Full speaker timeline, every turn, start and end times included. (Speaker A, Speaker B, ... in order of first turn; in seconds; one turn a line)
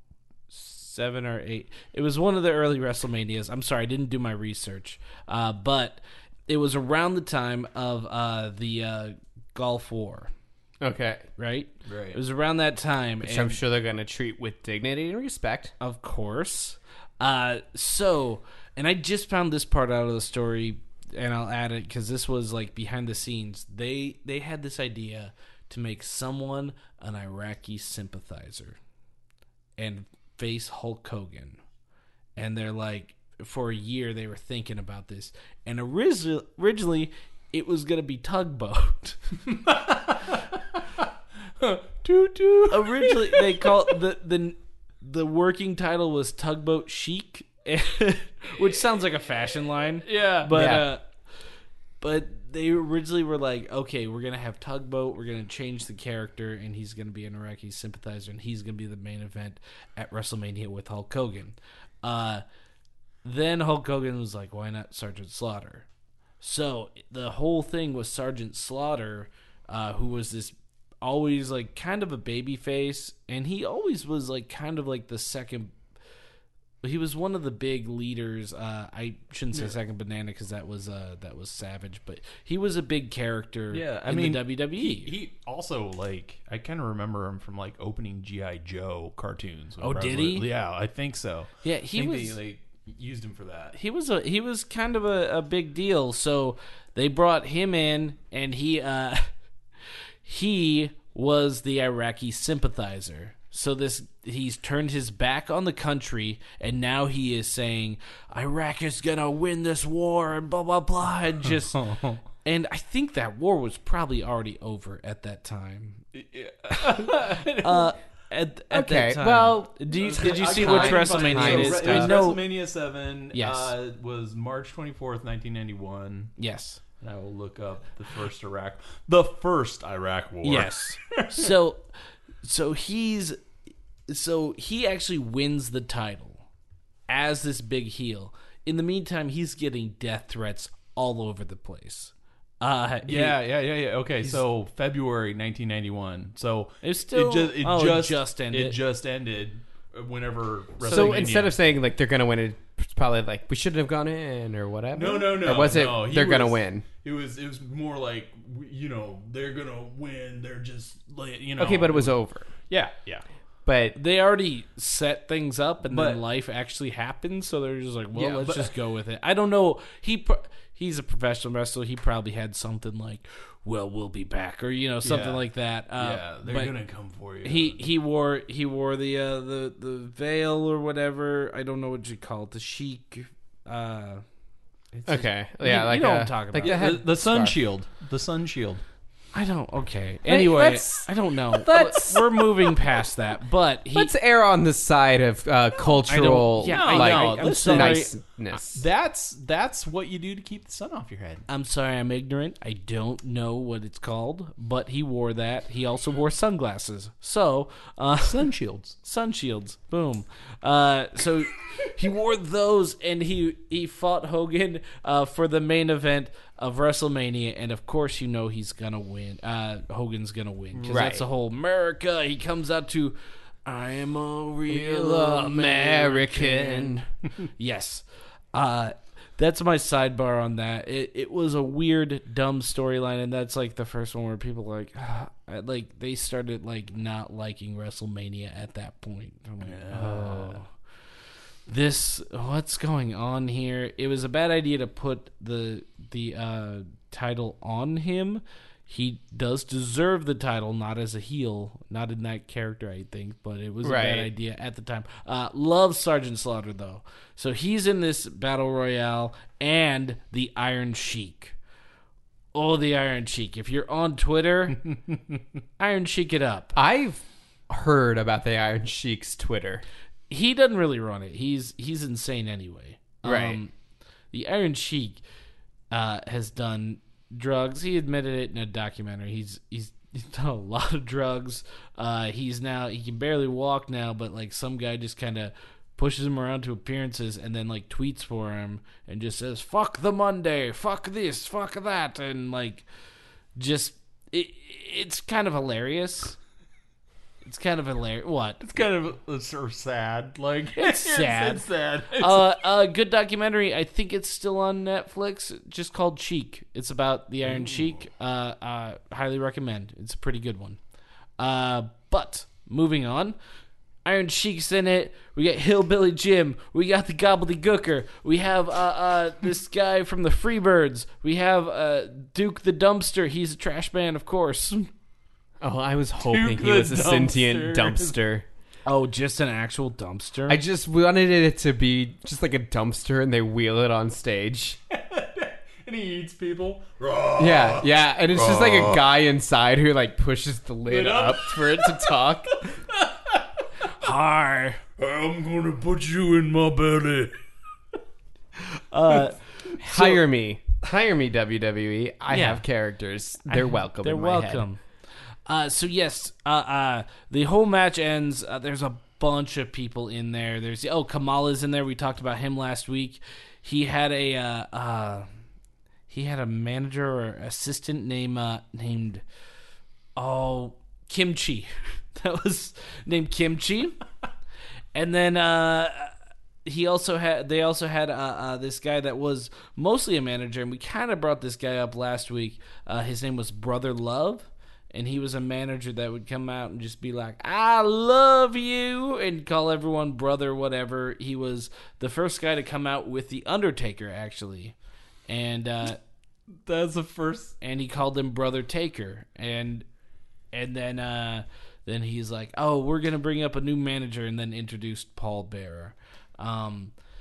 Speaker A: 0.5-10.3
Speaker B: 10.8-11.3
Speaker A: 11.4-13.6
Speaker C: 11.9-12.2
Speaker B: 13.2-15.7
Speaker A: 15.8-28.8
Speaker A: 29.8-31.6
Speaker A: 32.4-39.2
Speaker C: 39.5-41.0
Speaker C: 41.6-43.7
Speaker A: 42.7-51.1
Speaker C: 50.0-50.6
Speaker B: 50.5-50.9
Speaker A: 52.0-62.4
Speaker A: 63.2-65.9
Speaker A: 66.4-75.7
Speaker A: 76.8-85.1
Speaker C: 83.7-93.8
Speaker A: 89.8-90.5
Speaker A: 91.6-92.4
Speaker A: 93.7-99.3
Speaker A: 100.2-111.9
Speaker C: 111.8-112.2
Speaker A: 112.4-116.0
Speaker C: 116.2-117.9
Speaker A: 116.7-122.5
Speaker B: 118.7-122.2
Speaker C: 120.0-126.3
Speaker A: 123.3-123.7
Speaker A: 126.4-126.8
Speaker C: 127.0-131.5
Speaker A: 130.4-131.8
Speaker A: 132.4-133.4
Speaker A: 134.1-136.4
Speaker A: 137.1-143.4
Speaker C: 143.1-151.5
Speaker A: 146.8-148.8
Speaker A: 150.8-151.5
Speaker B: 150.9-156.8
Speaker C: 154.9-162.1
Speaker B: 161.6-162.5
Speaker C: 162.7-163.2
Speaker B: 163.7-164.0
Speaker A: 164.0-176.7
Speaker C: 165.8-166.2
Speaker B: 168.2-168.7
Speaker C: 175.0-175.4
Speaker C: 176.0-177.8
Speaker A: 177.4-184.2
Speaker A: 184.9-186.9
Speaker B: 185.1-187.6
Speaker C: 186.6-188.8
Speaker A: 189.3-194.1
Speaker B: 190.3-192.8
Speaker B: 193.9-198.8
Speaker A: 195.9-198.1
Speaker C: 196.7-201.4
Speaker A: 201.5-208.5
Speaker C: 208.2-209.0
Speaker A: 209.0-227.1
Speaker B: 220.7-221.3
Speaker B: 224.7-227.1
Speaker A: 227.6-240.7
Speaker C: 239.6-240.6
Speaker A: 241.7-261.6
Speaker B: 253.8-254.3
Speaker A: 262.5-264.9
Speaker A: 265.8-266.8
Speaker B: 266.8-269.9
Speaker A: 270.3-273.7
Speaker B: 273.2-273.6
Speaker A: 274.3-275.2
Speaker A: 275.9-292.9
Speaker A: 293.6-296.4
Speaker A: 297.4-298.6
Speaker C: 298.6-302.5
Speaker A: 300.8-301.6
Speaker A: 302.1-310.8
Speaker C: 307.6-307.9
Speaker A: 311.4-313.4
Speaker A: 314.1-324.9
Speaker B: 325.6-328.4
Speaker C: 326.2-328.2
Speaker A: 328.9-330.6
Speaker B: 330.5-334.8
Speaker C: 334.9-339.1
Speaker B: 337.4-342.7
Speaker C: 340.9-342.3
Speaker C: 342.9-343.4
Speaker A: 344.0-344.8
Speaker C: 345.0-347.4
Speaker A: 348.7-350.2
Speaker B: 349.8-354.6
Speaker A: 352.3-352.6
Speaker A: 353.5-354.8
Speaker A: 355.5-365.3
Speaker A: 366.1-369.2
Speaker A: 370.1-374.0
Speaker A: 374.9-376.1
Speaker A: 376.6-394.8
Speaker A: 395.3-396.0
Speaker C: 396.6-397.6
Speaker A: 397.6-399.9
Speaker A: 400.5-406.9